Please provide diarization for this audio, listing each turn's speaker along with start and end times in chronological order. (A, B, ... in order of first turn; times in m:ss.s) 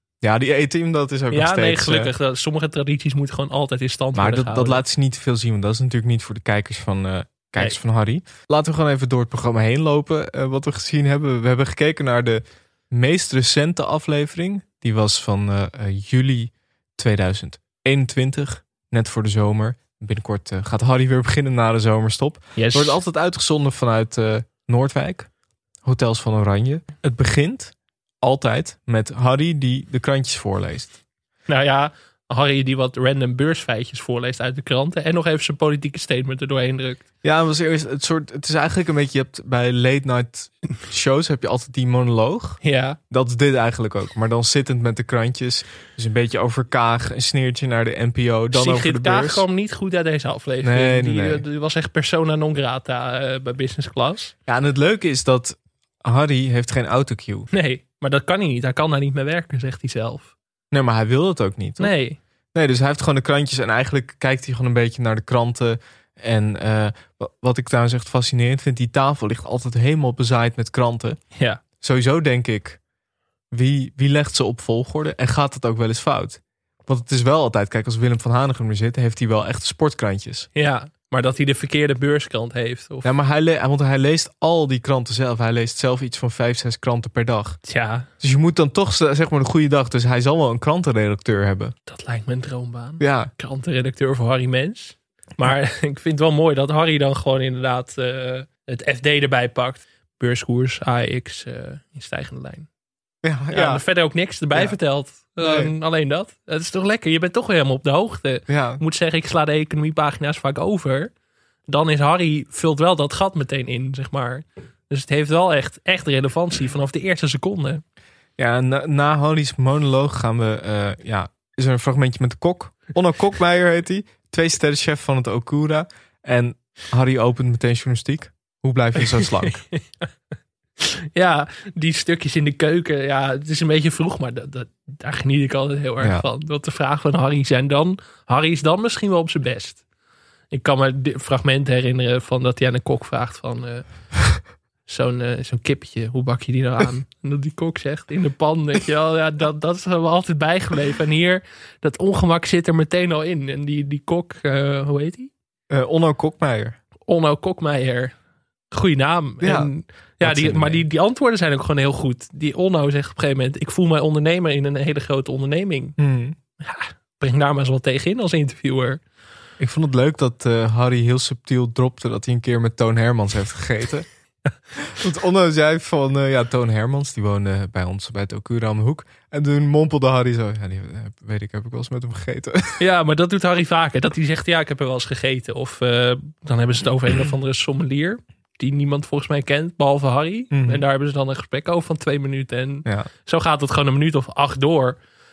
0:00.2-0:02.1 A
0:01.3-0:04.8 B
0:04.2-0:25.3 A
0:22.6-0:23.0 B
0:25.8-0:31.0 A
0:31.5-0:37.0 B
0:37.2-0:49.4 A
0:42.6-0:43.0 B
0:48.5-0:54.3 B
0:50.6-0:51.4 A
0:54.5-0:57.5 A
0:57.5-1:00.3 B
1:00.7-1:01.9 A
1:01.8-1:02.2 B
1:02.5-1:11.2 A
1:11.4-1:11.6 B
1:11.8-1:12.8 A
1:13.5-1:20.5 A
1:20.6-1:23.1 B
1:23.0-1:27.6 A
1:27.6-1:28.1 B
1:28.2-1:31.7 A
1:31.9-1:42.7 B
1:33.0-1:33.3 A
1:43.2-1:43.8 A
1:43.5-1:51.1 B
1:45.4-1:45.7 A
1:48.5-1:48.8 A
1:51.7-1:57.8 B
1:58.4-2:09.6 A
2:09.1-2:10.1 B
2:10.8-2:19.8 B
2:20.5-2:23.8 B
2:24.9-2:35.3 B
2:35.7-2:36.8 A
2:37.1-2:38.2 B
2:38.7-2:46.0 B
2:39.4-2:40.8 A
2:46.0-2:46.4 A
2:46.6-2:49.0 B
2:49.6-2:54.1 A
2:54.8-3:02.8 A
3:02.8-3:15.0 B
3:10.5-3:10.8 A